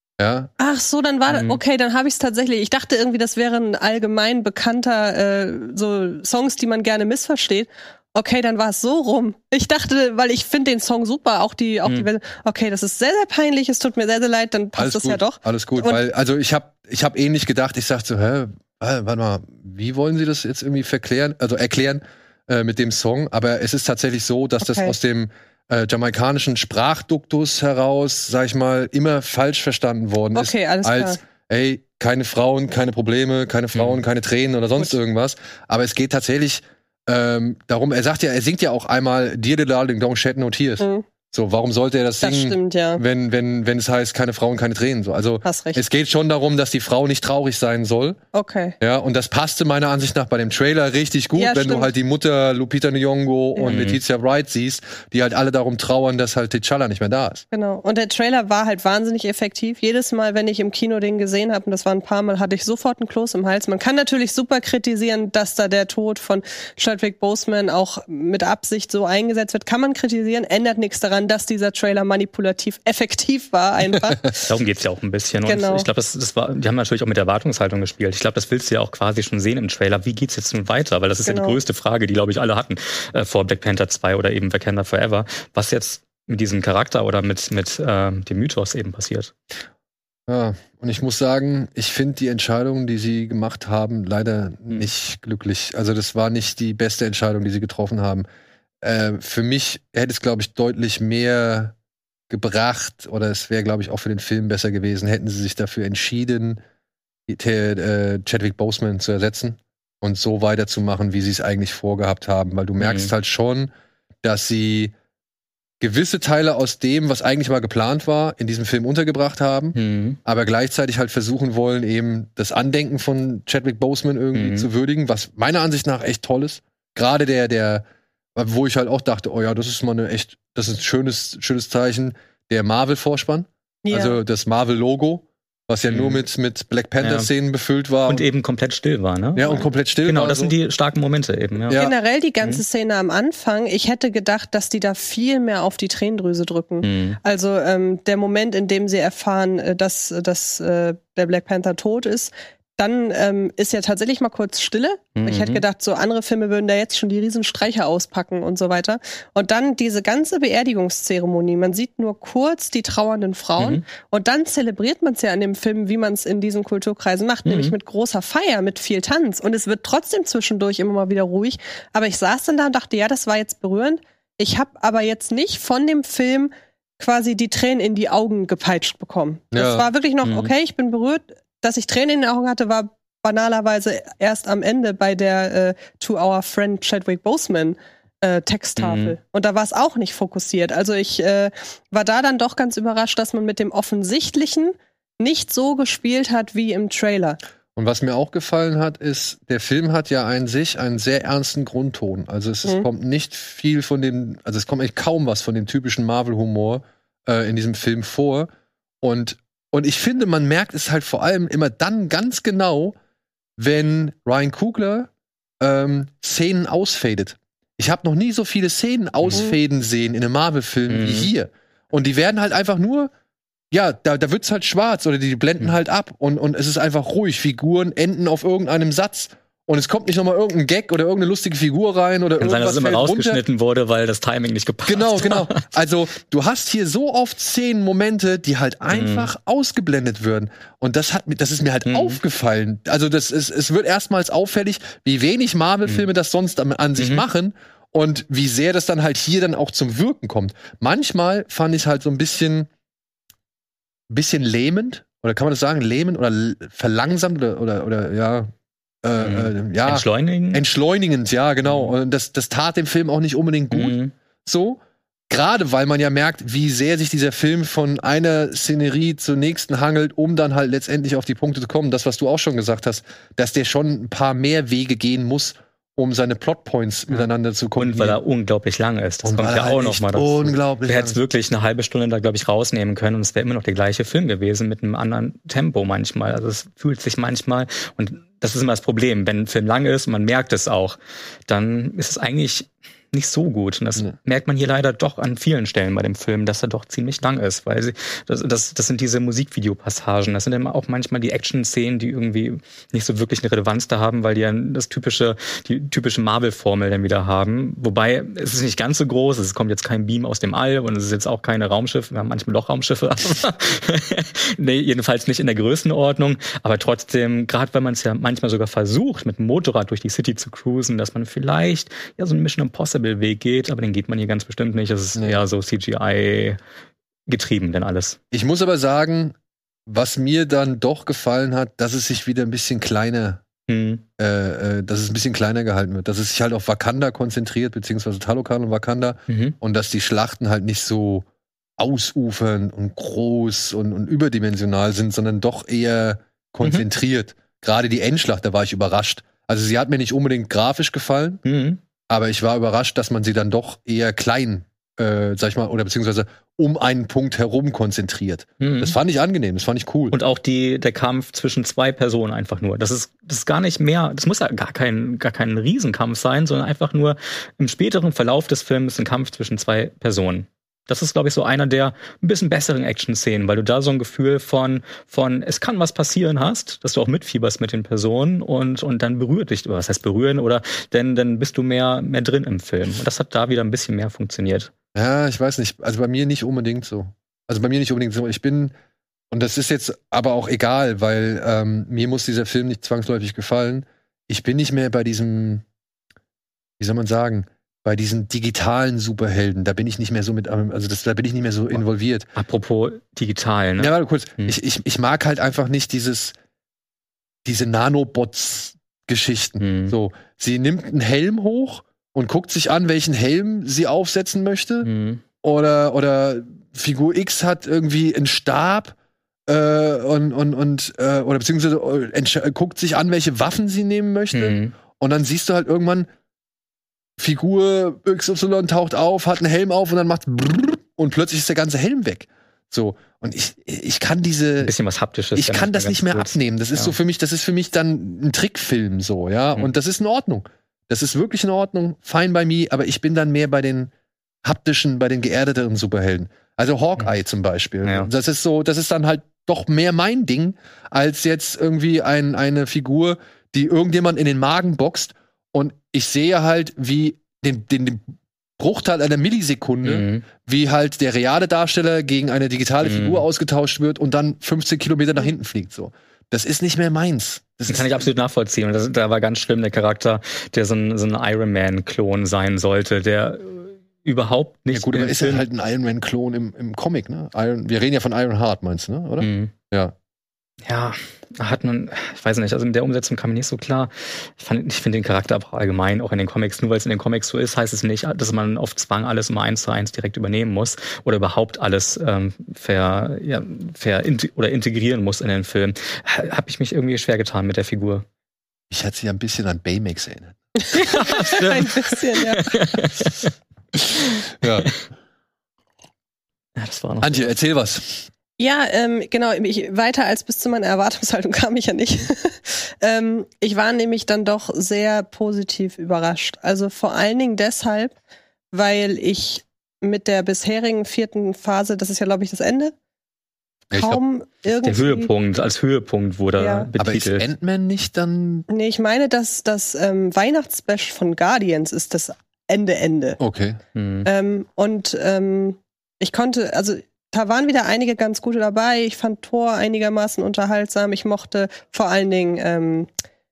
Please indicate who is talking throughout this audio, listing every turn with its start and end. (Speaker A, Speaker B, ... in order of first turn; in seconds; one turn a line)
Speaker A: 0.2-0.5
Speaker B: 0.6-16.0
Speaker C: 1.3-1.6
Speaker A: 14.8-48.2
Speaker B: 24.6-24.9
Speaker B: 30.4-31.2
Speaker C: 33.7-34.0
Speaker B: 40.8-41.1
Speaker B: 42.2-43.0
Speaker B: 45.4-45.8
Speaker B: 48.3-48.8
Speaker A: 48.8-57.5
Speaker B: 51.4-51.9
Speaker B: 53.6-53.8
Speaker C: 53.6-54.0
Speaker B: 57.5-74.4
Speaker C: 74.5-89.3
Speaker B: 75.5-75.9
Speaker B: 81.2-81.6
Speaker A: 90.3-98.3
Speaker A: 98.8-101.8
Speaker A: 102.3-106.6
Speaker A: 107.3-113.7
Speaker C: 112.8-113.1
Speaker A: 114.2-114.9
Speaker A: 115.8-127.8
Speaker C: 119.8-120.2
Speaker C: 124.3-124.7
Speaker A: 128.4-138.2
Speaker B: 133.8-134.2
Speaker C: 135.9-136.2
Speaker C: 137.0-137.3
Speaker C: 138.1-141.8
Speaker A: 139.4-140.5
Speaker A: 141.7-141.9
Speaker B: 141.7-197.4
Speaker C: 146.8-147.2
Speaker C: 155.2-155.6
Speaker C: 163.6-163.8
Speaker C: 167.4-167.8
Speaker A: 179.5-179.9
Speaker C: 180.2-180.5
Speaker C: 188.8-189.2
Speaker A: 197.8-208.5
Speaker A: 209.0-212.9
Speaker A: 213.6-215.1
Speaker A: 215.6-223.1
Speaker C: 220.9-221.3
Speaker A: 223.7-233.4
Speaker C: 232.4-235.6
Speaker A: 234.9-252.7
Speaker C: 238.9-239.3
Speaker C: 241.9-242.2
Speaker C: 247.0-247.2
Speaker A: 254.1-258.5
Speaker A: 259.0-278.2
Speaker C: 259.2-260.6
Speaker C: 261.6-261.9
Speaker C: 263.7-264.1
Speaker C: 277.1-326.6
Speaker A: 279.2-281.2
Speaker A: 325.2-325.4
Speaker C: 327.3-328.2
Speaker A: 328.3-329.4
Speaker A: 329.9-333.4
Speaker C: 333.7-334.0
Speaker A: 334.2-341.3
Speaker C: 339.3-339.6
Speaker A: 341.8-351.4
Speaker C: 351.4-351.8
Speaker A: 352.1-360.2
Speaker C: 358.6-359.0
Speaker C: 360.1-384.7
Speaker A: 384.9-388.8
Speaker A: 389.3-395.6
Speaker A: 396.8-402.3
Speaker C: 402.4-404.6
Speaker A: 403.8-406.4
Speaker A: 407.4-414.9
Speaker C: 409.6-410.0
Speaker C: 414.8-415.2
Speaker A: 415.4-419.0
Speaker A: 419.5-426.1
Speaker C: 424.3-424.8
Speaker A: 427.2-434.7
Speaker C: 434.6-437.0
Speaker A: 435.4-443.9
Speaker A: 444.4-468.1
Speaker C: 447.8-448.1
Speaker C: 459.8-460.3
Speaker C: 462.8-463.2
Speaker C: 467.7-475.4
Speaker A: 474.7-479.9
Speaker C: 479.2-479.5
Speaker C: 480.6-498.1
Speaker A: 498.7-501.4
Speaker B: 500.6-502.5
Speaker C: 500.8-503.3
Speaker A: 503.8-504.7
Speaker C: 506.6-507.3
Speaker A: 507.0-508.1
Speaker B: 508.4-518.0
Speaker B: 518.5-522.7
Speaker A: 523.7-524.0
Speaker B: 523.7-525.1
Speaker C: 524.6-527.2
Speaker B: 526.4-526.7
Speaker A: 526.8-528.5
Speaker B: 528.5-533.2
Speaker A: 533.2-533.6
Speaker C: 533.8-534.1
Speaker B: 534.0-542.9